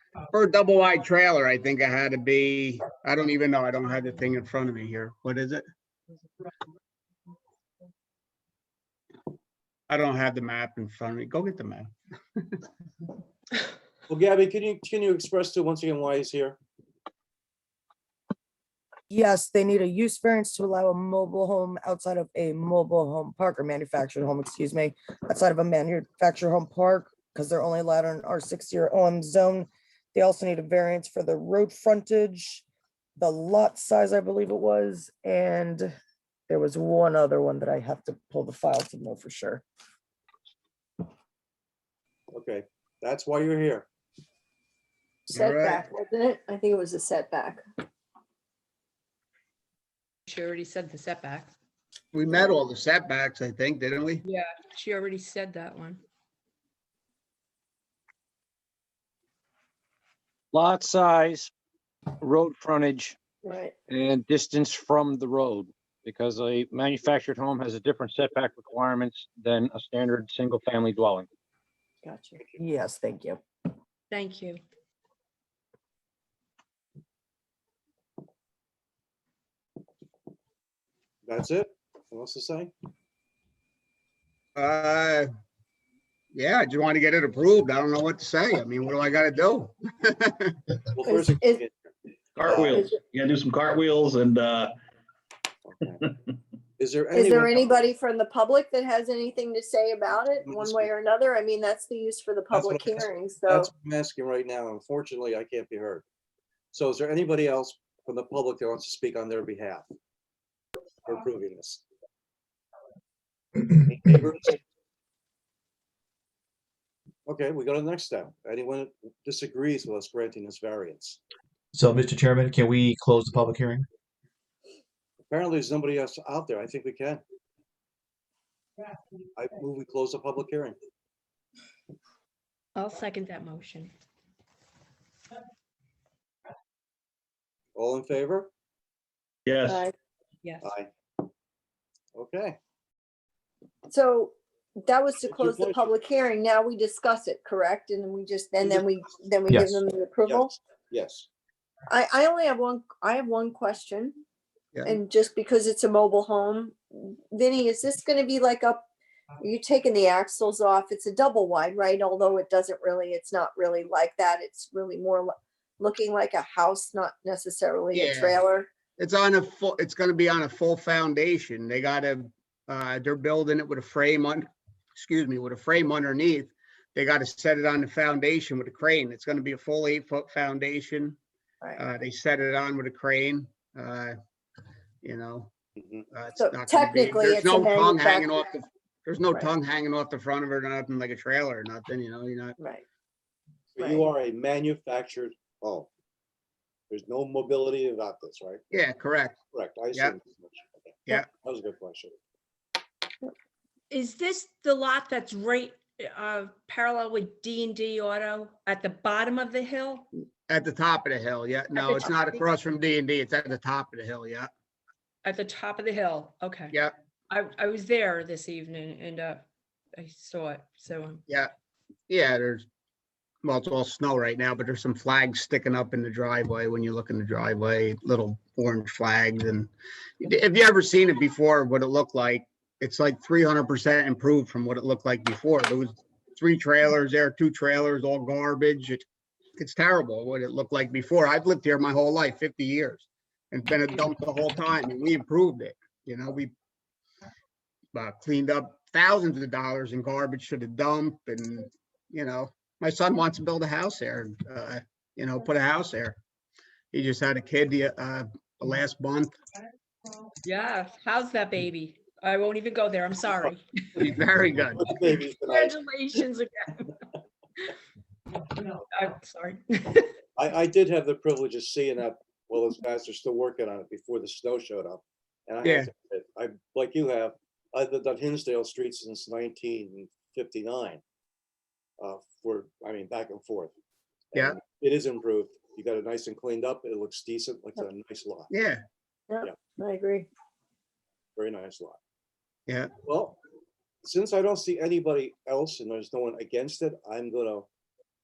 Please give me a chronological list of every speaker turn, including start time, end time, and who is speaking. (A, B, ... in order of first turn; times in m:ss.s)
0:00.3-0:05.6 A
0:09.9-0:11.9 A
0:14.1-0:16.6 B
0:19.1-0:32.6 C
0:33.2-0:35.9 C
0:36.5-0:39.6 C
0:42.3-0:43.9 B
0:45.3-0:47.6 D
0:45.3-0:45.8 A
0:50.3-0:51.5 E
0:52.1-0:54.2 A
0:54.2-0:56.0 E
1:00.5-1:01.5 F
1:02.2-1:03.2 F
1:03.4-1:03.7 D
1:03.9-1:11.3 F
1:12.0-1:12.4 D
1:12.6-1:13.4 C
1:14.1-1:14.6 E
1:21.2-1:22.7 B
1:24.6-1:25.3 A
1:26.3-1:30.6 A
1:31.0-1:31.7 B
1:31.0-1:31.6 D
1:32.4-1:34.7 G
1:32.4-1:32.8 B
1:35.7-1:36.0 B
1:36.8-1:37.8 B
1:37.1-1:43.7 D
1:40.3-1:40.9 B
1:42.5-1:46.0 B
1:46.7-1:49.8 B
1:51.0-1:51.8 B
1:53.9-1:54.6 B
1:57.3-2:01.2 B
2:01.7-2:03.9 H
2:05.3-2:07.2 B
2:09.4-2:10.8 B
2:12.8-2:13.9 E
2:17.8-2:18.5 B
2:19.5-2:19.8 G
2:19.7-2:19.9 D
2:20.6-2:20.9 B
2:22.2-2:22.6 B
2:23.9-2:30.5 D
2:25.2-2:25.9 B
2:29.5-2:29.8 H
2:30.3-2:31.3 B
2:31.9-2:34.2 D
2:34.9-2:38.9 D
2:39.4-2:48.7 D
2:47.9-2:48.4 A
2:49.0-3:01.2 A
3:01.8-3:04.2 A
3:05.0-3:05.5 A
3:05.8-3:06.0 B
3:06.1-3:12.6 A
3:06.4-3:08.4 D
3:13.8-3:15.9 B
3:13.8-3:14.1 D
3:16.9-3:18.6 B
3:18.7-3:19.4 A
3:19.5-3:22.1 B
3:23.9-3:30.1 E
3:30.5-3:34.5 A
3:35.2-3:36.7 E
3:37.3-3:41.2 E
3:42.1-3:42.6 A
3:43.4-3:59.0 A
3:59.6-4:06.5 A
4:07.9-4:16.2 A
4:16.9-4:19.3 A
4:20.4-4:23.9 E
4:24.0-4:24.9 A
4:24.8-4:25.8 B
4:25.2-4:27.0 E
4:28.6-4:30.1 E
4:30.4-4:41.0 B
4:42.0-4:43.7 B
4:44.3-4:48.5 B
4:48.5-4:48.8 A
4:49.3-4:50.3 D
4:51.4-4:52.0 B
4:53.0-4:53.4 B
4:54.0-4:57.7 B